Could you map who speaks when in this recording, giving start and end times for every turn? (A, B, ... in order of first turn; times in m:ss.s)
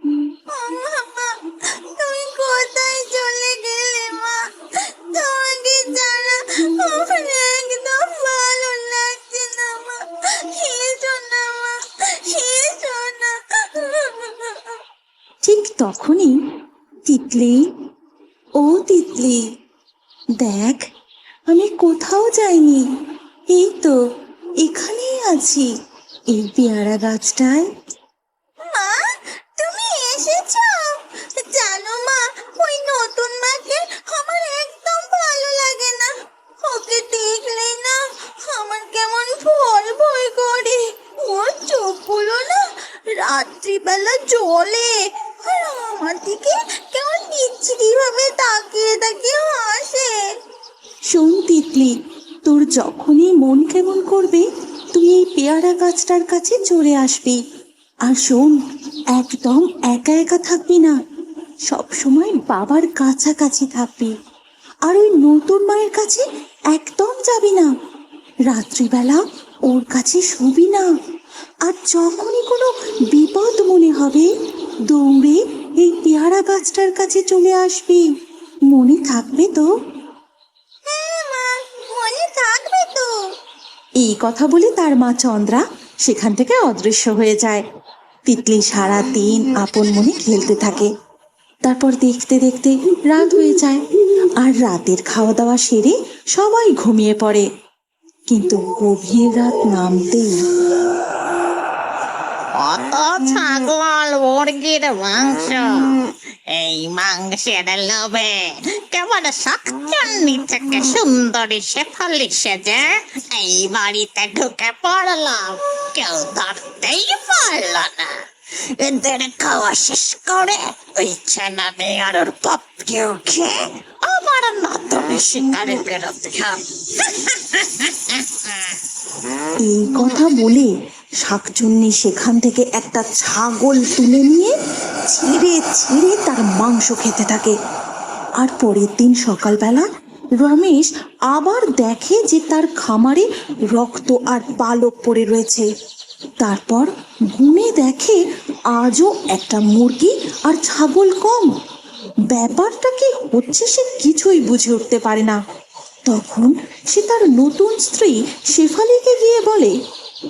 0:00.5-0:14.8 A
0:15.4-0:16.4 B
0:17.1-0:17.7 B
0:18.6-0:19.4 B
0:20.4-0:20.8 B
0:21.5-0:22.8 B
0:23.5-0:24.0 B
0:24.6-0:25.7 B
0:26.3-0:27.7 B
0:28.6-0:29.0 A
0:29.6-0:36.1 A
0:36.6-0:50.1 A
0:51.1-0:57.4 B
0:58.0-0:58.6 B
0:59.1-1:01.0 B
1:01.7-1:04.1 B
1:04.8-1:07.7 B
1:08.5-1:10.9 B
1:11.6-1:14.3 B
1:14.9-1:18.0 B
1:18.7-1:19.7 B
1:20.8-1:23.1 A
1:24.0-1:27.6 B
1:28.3-1:30.9 B
1:31.6-1:33.8 B
1:34.4-1:37.4 B
1:38.3-1:40.4 B
1:42.5-1:46.0 C
1:46.5-1:58.1 C
1:58.8-2:08.5 C
2:09.6-2:14.5 B
2:15.1-2:17.5 B
2:18.4-2:19.9 B
2:20.4-2:25.7 B
2:26.4-2:28.2 B
2:28.7-2:31.5 B
2:32.3-2:35.4 B
2:36.1-2:39.8 B